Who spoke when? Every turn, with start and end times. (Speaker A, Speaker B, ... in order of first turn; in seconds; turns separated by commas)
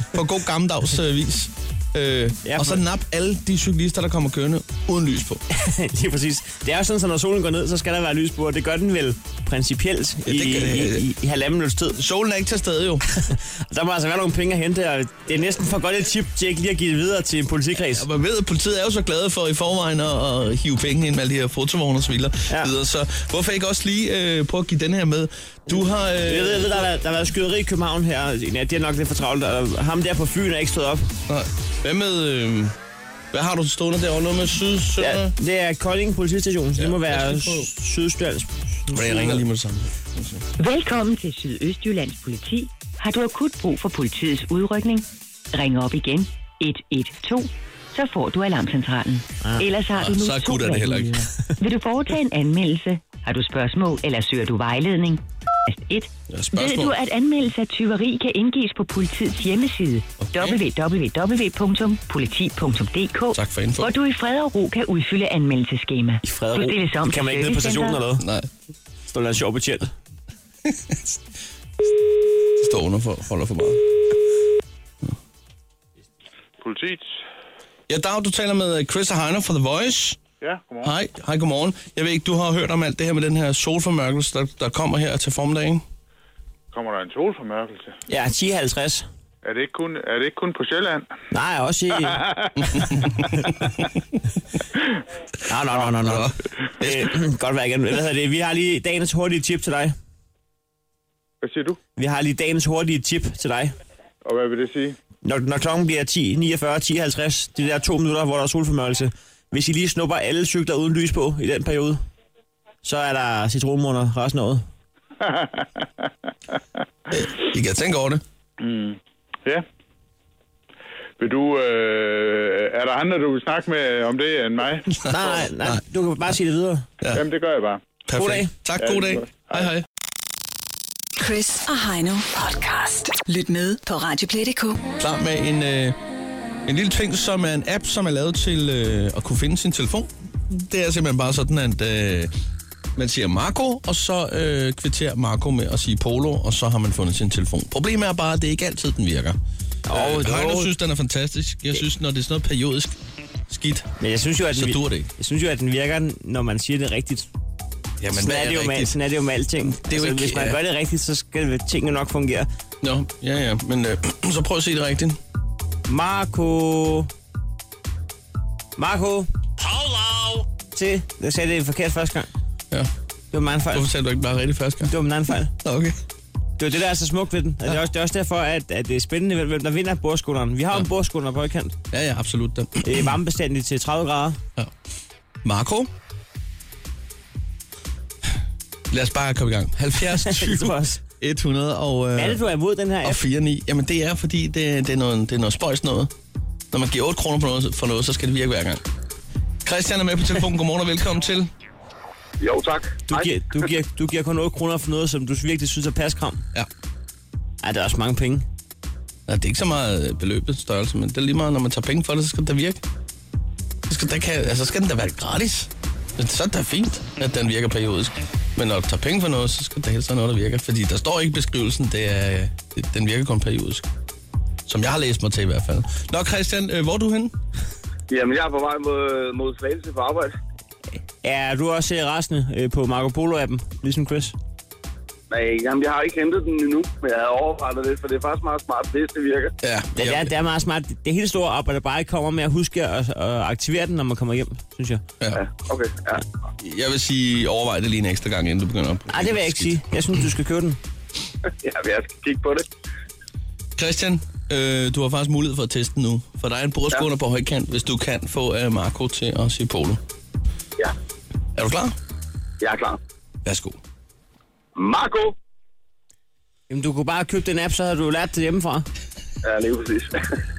Speaker A: 0.1-5.4, Speaker B: 2.4-2.8, Speaker B: 5.5-12.0, Speaker A: 10.3-11.1, Speaker A: 12.0-13.1, Speaker B: 13.2-18.1, Speaker A: 17.8-26.9, Speaker B: 26.2-31.1, Speaker A: 31.3-32.7, Speaker A: 33.3-35.3, Speaker B: 35.0-39.4, Speaker A: 36.8-37.7, Speaker A: 38.9-40.5, Speaker C: 40.6-68.0, Speaker B: 49.4-49.7, Speaker A: 49.9-51.3, Speaker A: 56.3-57.0, Speaker A: 60.2-60.6, Speaker A: 63.3-63.9, Speaker B: 66.2-68.2, Speaker A: 68.2-68.5, Speaker B: 69.1-69.9, Speaker A: 70.7-71.0, Speaker A: 72.6-73.8, Speaker D: 76.6-77.1, Speaker A: 77.9-80.2, Speaker D: 80.4-80.9, Speaker A: 80.8-85.8, Speaker D: 86.7-87.9, Speaker B: 88.1-89.0, Speaker D: 89.4-91.1, Speaker B: 91.3-92.2, Speaker D: 92.1-92.5, Speaker A: 92.7-93.1, Speaker B: 92.8-93.5, Speaker B: 95.5-100.0, Speaker A: 96.0-97.1, Speaker D: 101.4-101.8, Speaker B: 102.0-103.8, Speaker D: 104.2-105.0, Speaker B: 105.2-112.0, Speaker B: 112.8-114.7, Speaker D: 115.2-115.8, Speaker A: 117.1-118.2, Speaker D: 118.6-119.6, Speaker D: 121.2-125.0, Speaker B: 125.0-126.9, Speaker A: 125.1-125.8, Speaker D: 127.1-127.9, Speaker A: 128.1-129.8, Speaker B: 128.2-128.5, Speaker D: 128.9-129.7, Speaker E: 131.2-134.8, Speaker A: 135.0-136.0, Speaker A: 136.7-142.3, Speaker A: 143.0-149.4, Speaker B: 149.9-150.7, Speaker A: 149.9-152.9, Speaker A: 153.5-153.9, Speaker B: 154.0-157.3, Speaker A: 154.5-155.1, Speaker A: 158.0-158.9, Speaker B: 158.1-162.5, Speaker A: 159.7-160.6, Speaker A: 162.8-165.2, Speaker B: 165.9-167.1, Speaker B: 168.8-169.3, Speaker A: 169.6-170.4, Speaker B: 170.7-172.3, Speaker B: 173.3-173.9, Speaker A: 173.7-174.9, Speaker B: 174.8-175.5, Speaker A: 175.6-175.9, Speaker B: 176.6-181.7, Speaker A: 181.9-183.1, Speaker B: 182.8-184.4, Speaker A: 185.4-185.9, Speaker A: 188.9-192.4, Speaker B: 190.1-191.0, Speaker B: 192.2-193.2, Speaker A: 193.0-196.1, Speaker A: 196.7-198.8, Speaker A: 199.7-201.5, Speaker F: 202.4-203.3, Speaker B: 203.1-206.4, Speaker B: 207.6-208.5, Speaker A: 209.3-212.8, Speaker A: 213.9-223.8, Speaker A: 224.7-227.3, Speaker F: 228.1-230.3, Speaker B: 231.2-234.3, Speaker F: 235.3-239.5, Speaker A: 239.6-240.3, Speaker B: 239.9-245.0, Speaker F: 245.3-246.2, Speaker A: 246.6-249.8, Speaker B: 249.1-250.8, Speaker F: 251.6-252.7, Speaker A: 253.8-260.0, Speaker A: 261.6-261.9, Speaker F: 262.6-263.0, Speaker A: 263.4-263.8, Speaker F: 264.8-265.4, Speaker B: 266.7-268.9, Speaker F: 269.4-270.4